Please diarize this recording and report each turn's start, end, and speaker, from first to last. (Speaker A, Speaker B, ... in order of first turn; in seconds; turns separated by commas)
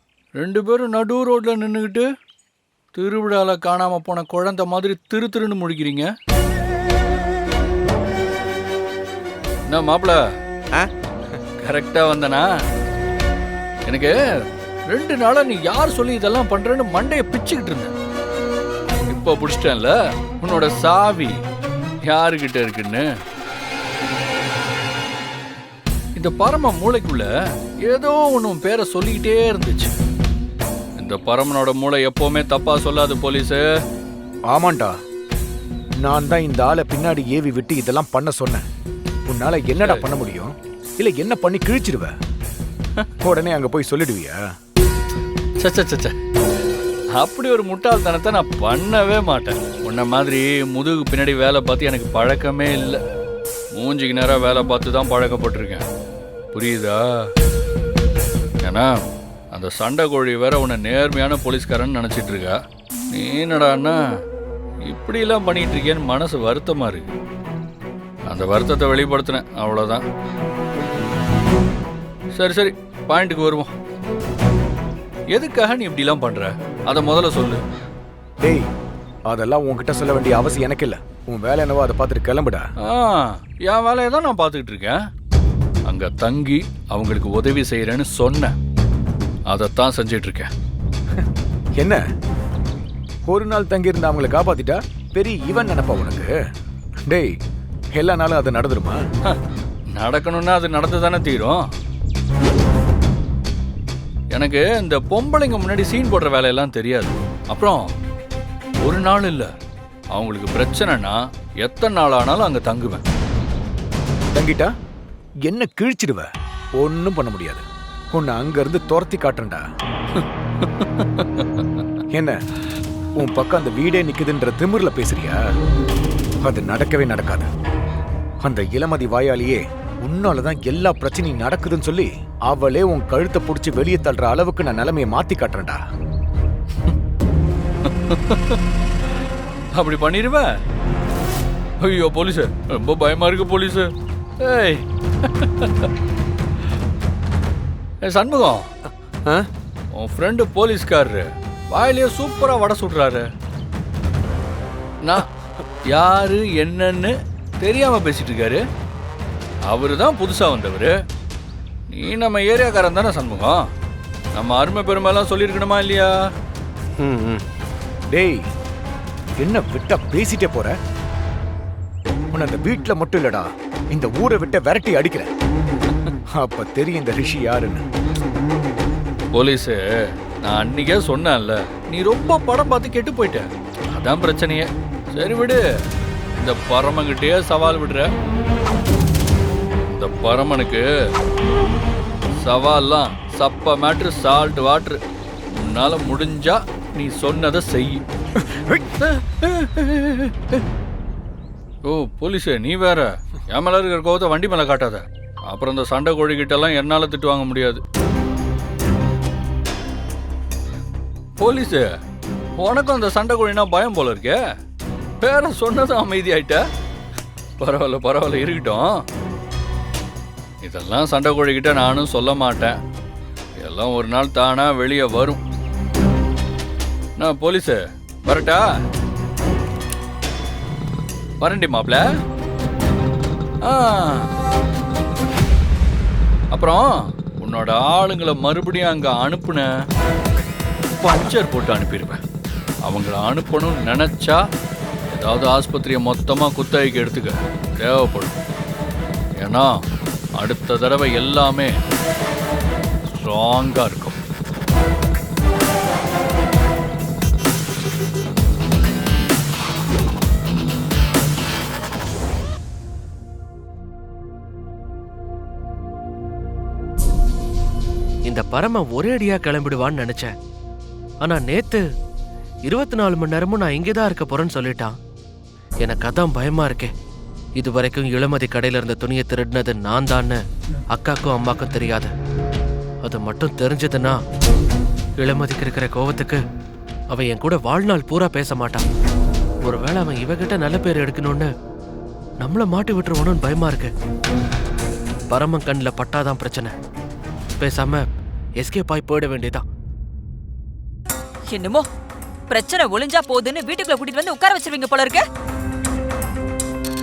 Speaker A: 0.3-2.1, Speaker A: 3.0-6.1, Speaker A: 9.7-10.2, Speaker A: 11.6-12.5, Speaker A: 13.9-14.1, Speaker A: 14.9-17.9, Speaker A: 19.1-21.4, Speaker A: 22.1-23.1, Speaker A: 26.2-27.3, Speaker A: 27.9-29.9, Speaker A: 31.0-33.7, Speaker B: 34.5-34.9, Speaker B: 36.0-38.6, Speaker B: 39.3-42.1, Speaker B: 43.2-44.4, Speaker A: 45.6-46.1, Speaker A: 47.1-53.0, Speaker A: 53.7-55.9, Speaker A: 56.5-57.3, Speaker A: 58.6-59.0, Speaker A: 59.5-62.6, Speaker A: 63.1-64.0, Speaker A: 64.8-67.1, Speaker A: 68.3-70.0, Speaker A: 72.3-73.7, Speaker A: 75.3-77.6, Speaker B: 79.3-82.7, Speaker A: 82.8-85.0, Speaker A: 85.8-88.5, Speaker A: 89.5-90.5, Speaker B: 93.3-96.3, Speaker B: 98.0-99.0, Speaker A: 99.2-101.7, Speaker A: 104.3-107.9, Speaker A: 108.8-109.5, Speaker A: 110.1-113.0, Speaker B: 114.3-114.7, Speaker B: 115.5-116.3, Speaker B: 116.8-119.6, Speaker A: 120.2-121.8, Speaker B: 123.2-125.4, Speaker B: 126.4-127.5, Speaker B: 128.4-135.8, Speaker A: 137.9-138.6, Speaker A: 139.8-140.6, Speaker A: 141.8-145.9, Speaker A: 148.0-148.7, Speaker A: 149.9-153.3, Speaker A: 155.9-158.6, Speaker A: 159.7-160.9, Speaker A: 161.9-163.6, Speaker A: 164.3-166.1, Speaker B: 168.1-168.4, Speaker B: 169.4-170.7, Speaker B: 172.3-175.3, Speaker B: 176.3-177.8, Speaker A: 179.3-179.8, Speaker A: 180.4-185.7, Speaker A: 186.4-188.1, Speaker A: 189.9-190.9, Speaker A: 192.4-195.0, Speaker A: 195.6-198.0, Speaker B: 198.4-198.8, Speaker A: 199.1-200.6, Speaker A: 201.8-207.8, Speaker A: 211.4-212.0, Speaker A: 212.6-214.4, Speaker A: 215.2-216.6, Speaker A: 217.6-219.0, Speaker A: 220.6-222.8, Speaker A: 223.6-225.4, Speaker A: 227.2-228.8, Speaker A: 231.4-232.1, Speaker A: 233.6-234.3, Speaker A: 236.5-239.7, Speaker A: 241.0-242.2, Speaker A: 242.9-244.4, Speaker A: 245.1-248.4, Speaker A: 249.4-249.8, Speaker A: 250.4-251.8, Speaker A: 253.1-254.2, Speaker C: 268.3-270.3, Speaker C: 271.2-271.8, Speaker C: 272.7-274.9, Speaker C: 275.8-276.9, Speaker C: 277.6-280.4, Speaker C: 280.9-282.1, Speaker C: 283.0-284.1, Speaker C: 285.2-286.4, Speaker C: 287.1-288.8, Speaker C: 289.6-291.5, Speaker C: 292.4-293.9, Speaker C: 295.3-296.7, Speaker C: 297.6-298.0, Speaker C: 298.6-299.6, Speaker D: 301.5-301.9, Speaker D: 302.5-305.2